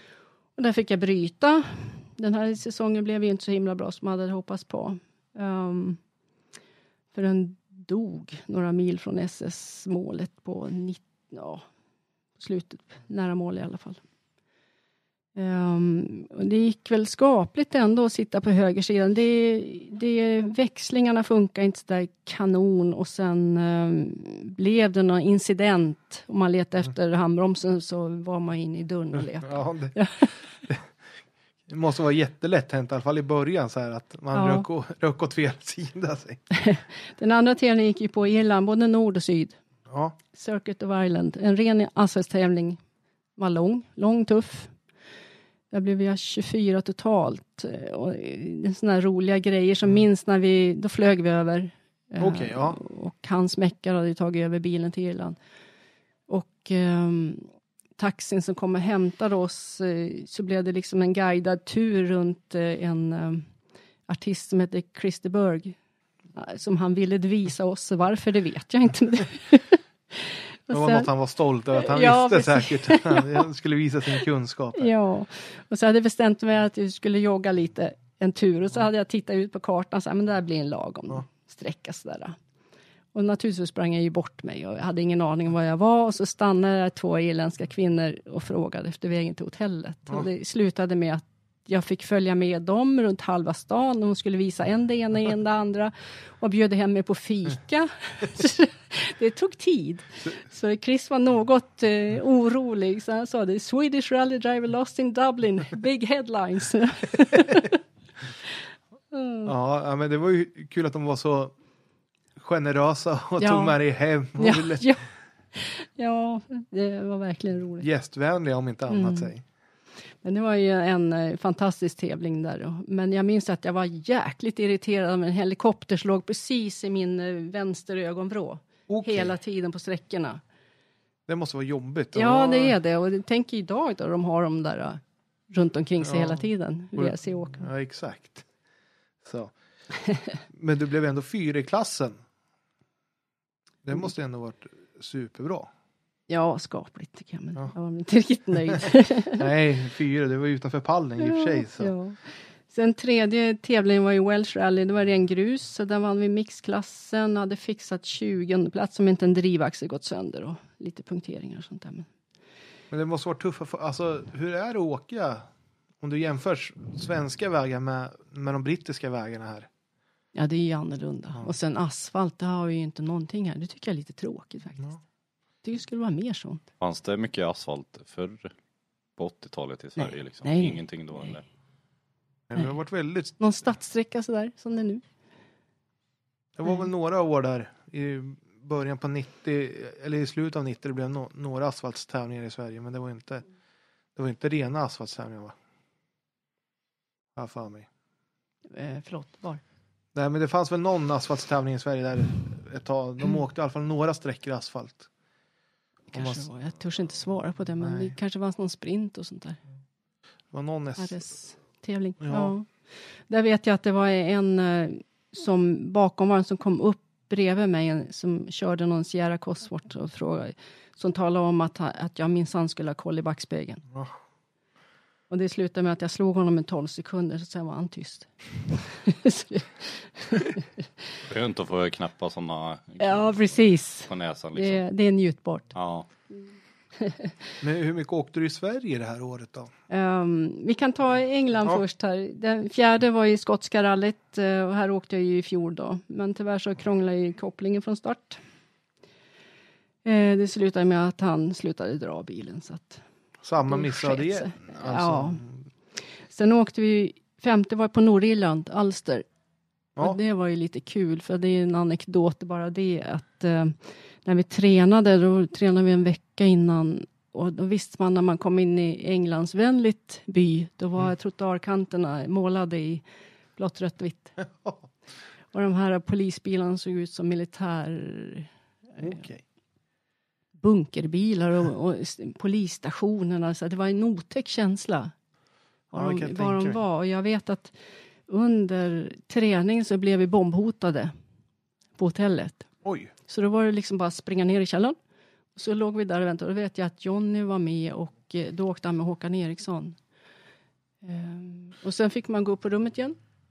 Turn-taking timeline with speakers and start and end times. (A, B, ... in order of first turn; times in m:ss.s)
0:00.6-0:06.0 A
0:07.1-0:11.7 A
0:12.4-0:14.0 A
0:15.3-0:30.5 A
0:29.4-0:30.9 B
0:31.7-0:36.4 B
0:34.3-0:34.6 A
0:36.5-0:39.6 A
0:39.9-0:40.1 B
0:40.3-0:42.8 A
0:43.4-0:44.7 A
0:45.7-0:55.4 A
0:52.2-0:52.8 B
0:56.3-1:03.5 A
1:04.1-1:05.8 A
1:06.3-1:11.1 A
1:10.7-1:14.9 B
1:11.7-1:13.4 A
1:14.7-1:22.4 A
1:23.1-1:47.8 A
1:49.1-1:49.5 A
1:49.4-1:51.5 B
1:52.4-1:54.8 B
1:53.4-1:53.7 A
1:54.4-1:57.9 A
1:57.8-1:59.4 B
1:58.9-1:59.3 A
2:00.2-2:10.4 A
2:08.9-2:09.3 B
2:11.3-2:12.8 B
2:12.1-2:17.7 A
2:16.0-2:16.4 B
2:16.9-2:18.4 B
2:19.2-2:19.5 B
2:20.5-2:22.2 B
2:23.8-2:25.7 B
2:26.3-2:29.5 A
2:29.4-2:31.9 B
2:31.2-2:42.1 A
2:42.9-2:45.5 B
2:46.0-2:49.7 B
2:50.3-2:55.0 A
2:55.6-2:56.6 A
2:56.8-2:58.5 C
2:59.2-3:01.4 C
3:00.0-3:00.8 A
3:02.5-3:03.4 B
3:03.4-3:05.0 A
3:06.6-3:13.4 B
3:14.2-3:15.6 B
3:17.3-3:17.9 B
3:18.7-3:19.6 A
3:20.1-3:25.1 B
3:26.1-3:29.6 A
3:26.1-3:26.4 B
3:27.8-3:28.1 B
3:30.5-3:31.2 B
3:31.0-3:43.8 A
3:32.2-3:32.5 B
3:45.3-3:50.9 A
3:51.2-3:54.8 C
3:53.0-3:55.7 A
3:55.7-3:56.1 C
3:57.0-3:57.4 A
3:57.6-3:59.7 B
3:59.9-4:08.4 A
4:10.0-4:13.0 A
4:13.4-4:15.6 B
4:13.6-4:15.4 A
4:16.2-4:19.2 A
4:20.0-4:33.0 A
4:33.5-4:34.4 A
4:34.4-4:34.9 B
4:35.5-4:39.2 A
4:39.0-4:39.4 B
4:40.6-4:45.1 A
4:45.9-4:51.1 A
4:45.9-4:46.8 B
4:52.0-4:52.7 A
4:52.8-4:53.1 B
4:53.3-4:55.0 A
4:55.5-5:00.0 A
5:01.0-5:03.2 A